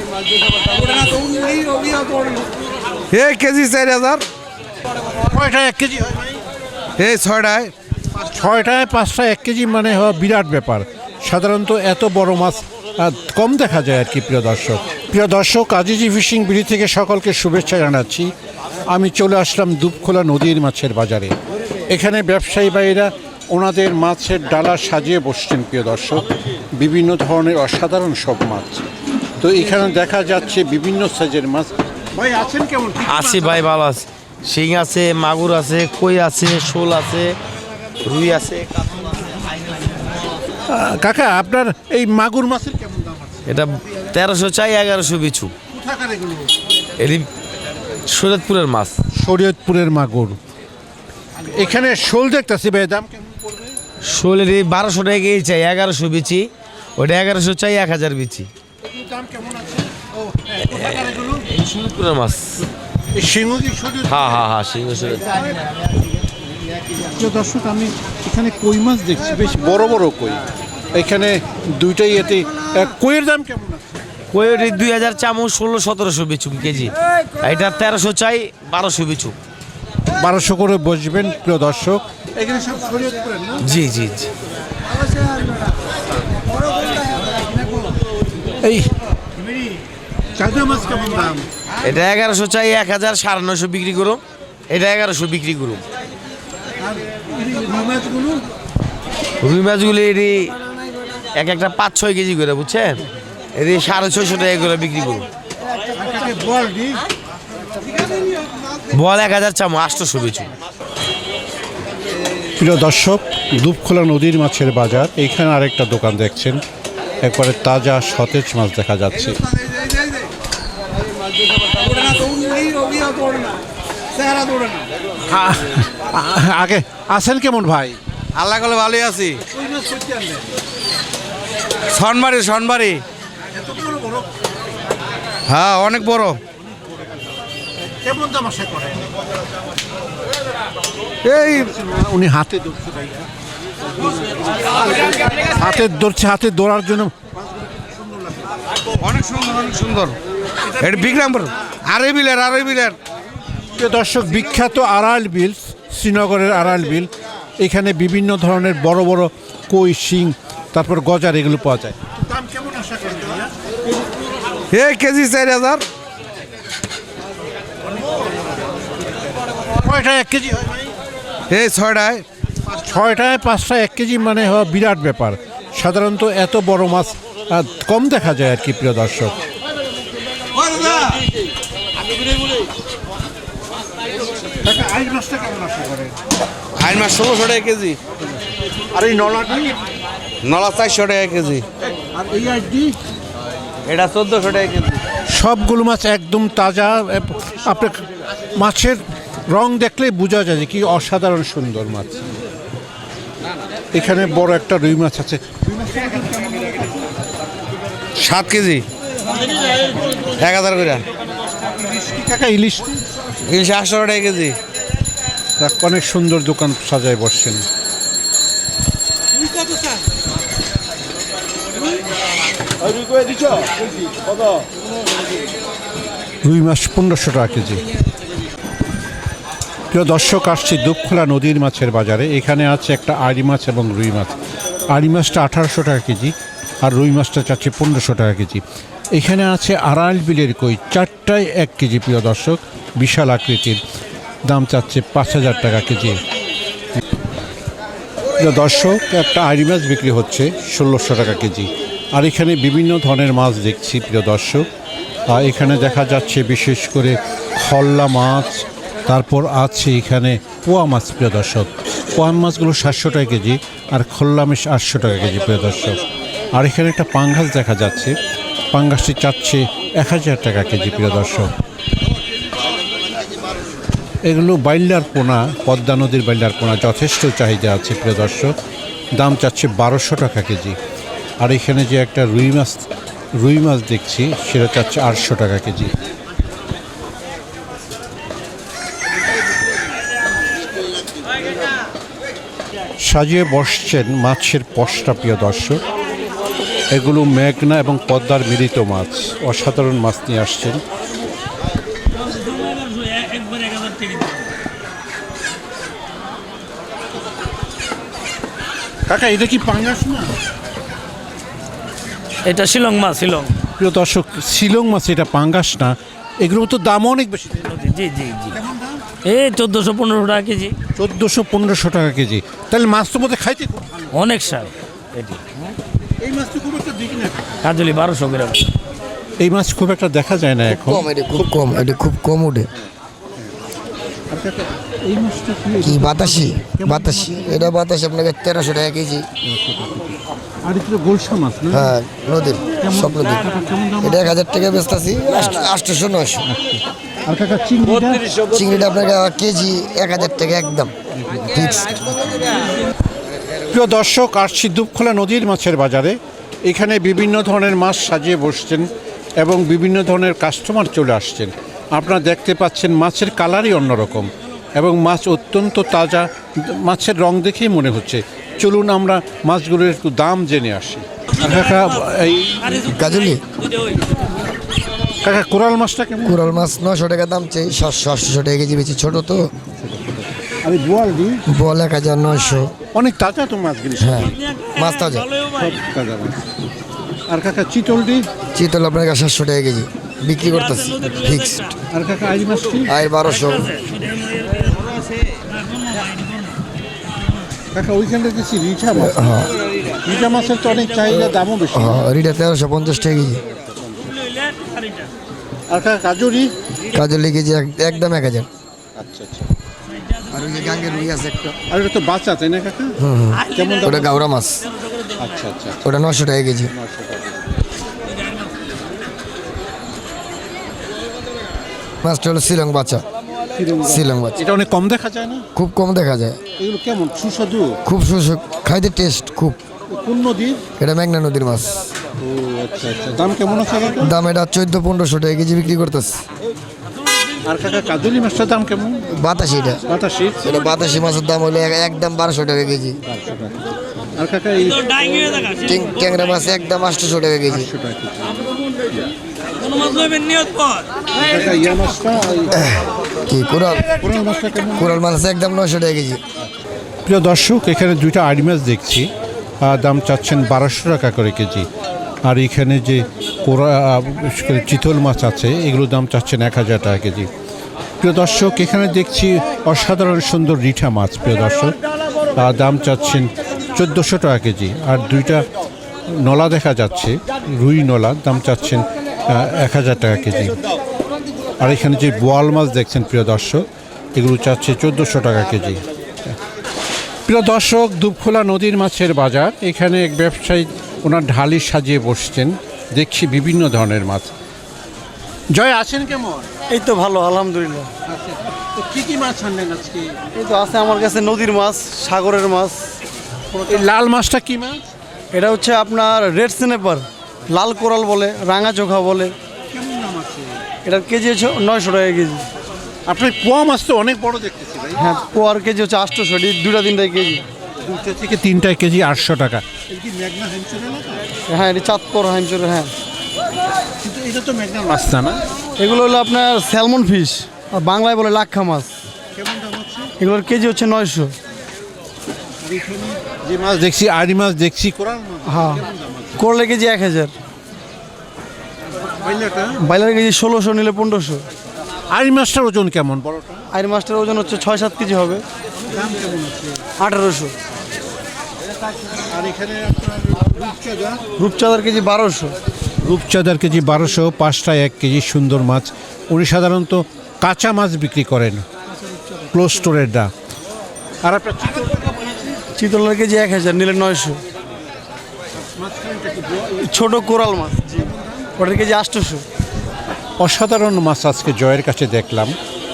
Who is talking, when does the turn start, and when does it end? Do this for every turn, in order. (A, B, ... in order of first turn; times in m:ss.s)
0:00.9-0:01.6 A
0:03.1-0:04.3 A
0:05.3-0:06.4 B
0:07.0-0:07.7 A
0:08.2-0:18.3 B
0:18.9-0:21.4 B
0:21.9-0:28.8 B
0:29.4-0:33.7 B
0:33.0-0:37.4 C
0:38.0-0:39.0 C
0:40.7-0:43.6 B
0:43.5-0:45.5 C
0:45.7-0:46.6 B
0:47.0-0:47.3 C
0:48.1-0:49.0 C
0:49.1-0:50.4 B
0:51.4-0:53.8 B
0:54.0-0:58.5 C
0:58.9-1:01.4 B
1:00.8-1:02.6 C
1:03.1-1:04.4 B
1:04.1-1:05.4 C
1:07.0-1:10.4 B
1:11.0-1:14.0 B
1:14.3-1:19.4 C
1:20.2-1:23.6 B
1:23.6-1:24.3 C
1:28.6-1:28.9 B
1:30.4-1:31.5 B
1:31.8-1:35.8 C
1:36.9-1:38.4 B
1:39.4-1:40.6 C
1:41.4-1:43.0 C
1:43.6-1:45.3 C
1:46.0-1:47.0 B
1:48.9-1:50.5 C
1:52.6-1:56.6 B
1:57.2-1:59.4 B
1:59.5-2:00.2 A
2:02.2-2:03.5 A
2:04.3-2:04.6 A
2:05.3-2:08.0 B
2:08.4-2:09.4 A
2:09.5-2:10.5 B
2:11.9-2:13.0 A
2:13.5-2:14.3 B
2:15.5-2:16.4 A
2:17.8-2:19.1 B
2:21.2-2:21.7 A
2:21.3-2:23.3 B
2:24.0-2:28.5 B
2:29.0-2:30.2 A
2:30.8-2:33.0 A
2:33.8-2:43.5 B
2:44.7-2:45.9 A
2:49.8-2:50.9 B
2:51.5-2:52.3 A
2:52.7-2:59.4 B
3:04.6-3:06.2 B
3:06.8-3:08.0 A
3:08.9-3:09.8 B
3:10.4-3:11.7 A
3:12.1-3:13.0 B
3:14.0-3:15.0 A
3:15.3-3:22.3 B
3:23.9-3:26.8 B
3:28.4-3:28.8 A
3:30.3-3:31.0 A
3:31.8-3:33.0 B
3:33.4-3:34.6 A
3:35.6-3:37.6 B
3:46.4-3:47.8 B
3:49.9-3:54.3 B
3:54.9-3:58.6 B
3:59.1-4:03.8 B
4:04.5-4:06.2 B
4:08.4-4:14.7 B
4:15.3-4:26.0 B
4:26.6-4:28.2 B
4:28.7-4:31.5 B
4:34.2-4:38.5 B
4:39.2-4:40.8 B
4:41.4-4:45.9 B
4:53.0-4:55.8 B
4:56.9-5:00.8 B
5:02.6-5:04.4 D
5:09.1-5:10.4 B
5:12.5-5:13.5 D
5:13.8-5:17.9 B
5:17.9-5:18.5 C
5:18.5-5:19.2 B
5:19.3-5:20.5 D
5:19.4-5:20.8 C
5:21.0-5:24.3 B
5:24.4-5:25.4 C
5:26.2-5:27.6 B
5:27.7-5:28.6 D
5:28.0-5:28.5 C
5:29.4-5:31.8 B
5:30.7-5:32.7 E
5:34.3-5:37.7 B
5:35.8-5:39.3 E
5:39.4-5:41.9 B
5:41.7-5:43.5 E
5:42.8-5:44.3 B
5:44.0-5:46.5 E
5:46.5-5:48.4 B
5:48.5-5:50.9 E
5:51.2-5:51.5 B
5:51.5-5:52.6 E
5:53.7-6:13.0 B
6:12.9-6:13.4 E
6:15.2-6:16.7 B
6:16.2-6:19.5 E
6:19.8-6:21.4 B
6:21.5-6:22.8 E
6:22.9-6:24.5 B
6:24.0-6:25.4 E
6:25.4-6:26.4 B
6:27.3-6:28.3 B
6:28.5-6:31.8 E
6:31.9-6:33.0 B
6:32.9-6:33.8 E
6:34.1-6:34.6 D
6:37.7-6:39.3 B
6:39.0-6:39.5 E
6:39.9-6:42.1 B
6:41.7-6:43.4 E
6:43.7-6:44.5 B
6:45.7-6:46.5 B
6:46.9-6:48.5 E
6:49.0-6:49.5 B
6:50.3-6:51.6 E
6:51.7-6:54.3 B
6:53.0-6:54.7 E
6:55.2-6:55.8 B
6:55.8-6:56.7 E
6:56.7-6:57.4 B
7:02.0-7:03.0 E
7:03.5-7:05.5 B
7:03.9-7:04.4 E
7:05.6-7:06.4 E
7:06.6-7:07.8 B
7:07.8-7:09.6 E
7:09.9-7:10.6 B
7:10.8-7:11.9 E
7:12.2-7:14.1 B
7:14.0-7:16.2 E
7:17.5-7:19.1 B
7:19.1-7:19.8 E
7:19.9-7:20.6 B
7:20.4-7:23.0 E
7:23.1-7:23.6 B
7:24.2-7:25.6 B
7:25.6-7:27.7 E
7:27.5-7:28.4 B
7:29.7-7:30.8 D
7:31.1-7:32.7 B
7:33.3-7:33.9 E
7:33.9-7:35.0 B
7:34.8-7:36.2 E
7:37.0-7:41.7 B
7:42.2-7:47.3 B
7:48.0-7:51.8 B
7:52.3-7:55.4 B
7:56.1-8:00.6 B
8:01.6-8:06.4 B
8:07.3-8:14.3 B
8:15.5-8:16.5 B
8:16.7-8:17.9 F
8:18.1-8:20.2 B
8:20.3-8:22.8 F
8:23.5-8:24.9 B
8:25.3-8:29.4 F
8:29.7-8:30.6 B
8:30.8-8:32.5 F
8:33.1-8:35.0 B
8:35.0-8:37.4 F
8:37.8-8:41.2 B
8:41.5-8:42.9 F
8:44.0-8:45.4 B
8:45.8-8:48.9 F
8:49.4-8:50.1 B
8:50.2-8:51.4 F
8:52.6-8:56.4 B
8:55.4-8:57.3 F
8:59.2-8:59.8 B
8:59.8-9:01.4 F
9:02.1-9:03.7 B
9:03.7-9:05.4 F
9:05.9-9:06.8 B
9:07.0-9:07.5 F
9:09.1-9:11.2 B
9:11.4-9:12.6 F
9:13.0-9:18.7 B
9:19.5-9:20.3 B
9:21.2-9:22.4 B
9:22.7-9:24.4 F
9:25.6-9:26.8 B
9:26.8-9:29.4 F
9:28.0-9:28.4 B
9:30.4-9:32.6 B